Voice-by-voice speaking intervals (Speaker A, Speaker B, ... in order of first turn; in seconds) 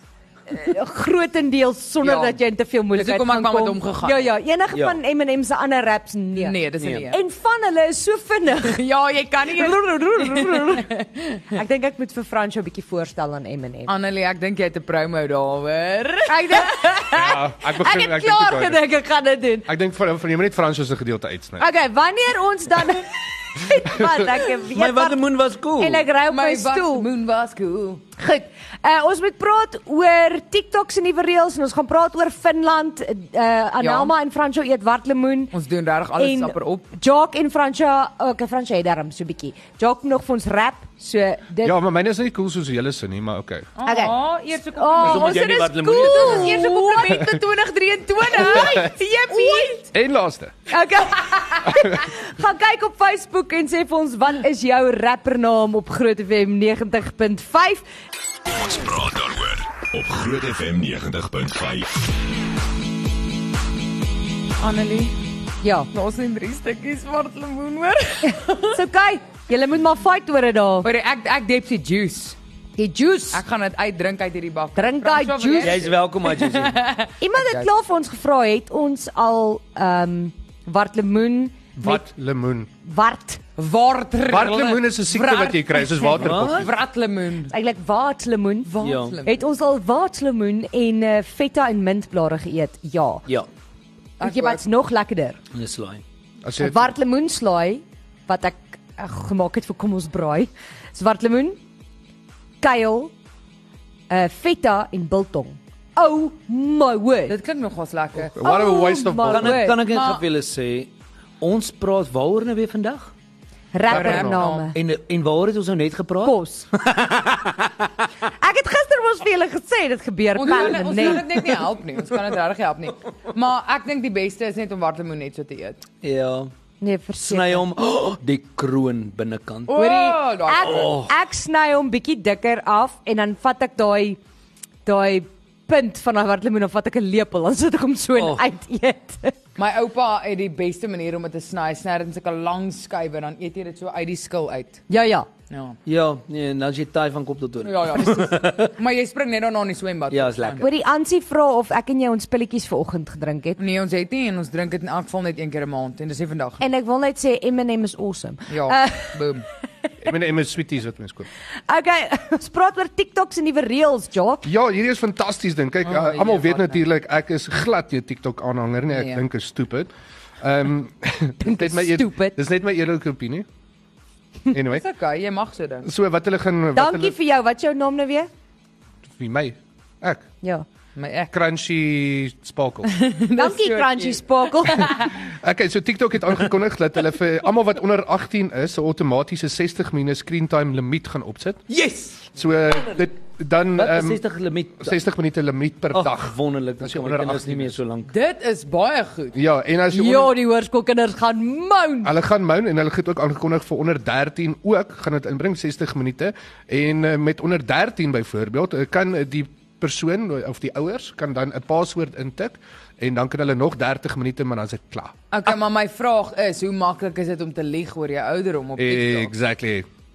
Speaker A: 0.5-6.6, 7.1-8.8, 9.5-10.9, 11.5-13.9, 16.3-19.7, 21.6-25.2, 25.8-27.1, 28.2-35.5, 36.2-41.8, 43.9-44.2, 44.7-47.3, 48.3-49.8, 50.7-57.8, 65.6-65.9, 68.2-70.9, 72.8-73.4, 74.8-75.9, 77.2-82.0, 82.8-83.4, 87.5-93.2, 94.2-95.4, 96.5-101.6, 102.6-103.1, 104.1-107.4, 108.4-109.8, 113.7-114.8, 116.2-116.7, 118.4-121.5, 126.8-127.6, 129.7-134.2, 134.8-139.3, 144.9-145.3, 150.6-153.6, 156.6-159.2, 161.7-164.5, 171.4-172.4, 176.8-178.3, 183.4-185.0, 199.9-202.1
Speaker B: 2.0-2.4, 2.9-4.3, 6.3-7.2, 8.6-11.4, 13.9-16.8, 26.2-28.0, 33.8-34.1, 35.5-36.9, 43.8-49.9, 64.6-65.2, 65.9-68.8, 70.8-72.4, 73.3-77.7, 83.6-87.5, 88.6-89.4, 94.2-94.6, 107.3-108.3, 109.7-110.2, 113.9-114.7, 120.4-125.8, 129.7-131.0, 139.6-144.8, 145.5-145.8, 147.6-150.6, 153.6-156.6, 158.5-159.5, 165.8-166.8, 168.9-169.2, 174.7-175.9, 181.0-181.3, 182.9-185.1, 198.1-199.4, 215.3-219.3
Speaker C: 4.7-5.0, 6.8-7.1, 24.7-26.1, 45.0-46.6, 75.6-76.8, 86.2-86.7, 88.8-89.2, 95.5-96.0, 109.2-113.1, 113.9-117.7, 126.0-126.5, 127.2-129.8, 130.6-131.1, 138.2-138.4, 145.9-148.7, 150.1-150.7, 191.7-193.0, 193.8-195.0, 195.9-198.1
Speaker D: 17.1-18.8, 19.7-21.6, 23.9-24.2, 41.6-43.7, 49.9-50.5, 81.8-82.7, 84.2-86.7, 96.4-96.9, 108.2-109.7, 160.0-161.3, 164.4-169.9, 170.4-173.5, 174.5-174.8, 175.8-177.1, 179.2-180.3, 181.3-182.9, 185.2-191.6, 192.3-194.2, 194.8-197.8, 199.3-200.3, 202.0-215.1, 218.8-219.9
Speaker E: 58.5-62.1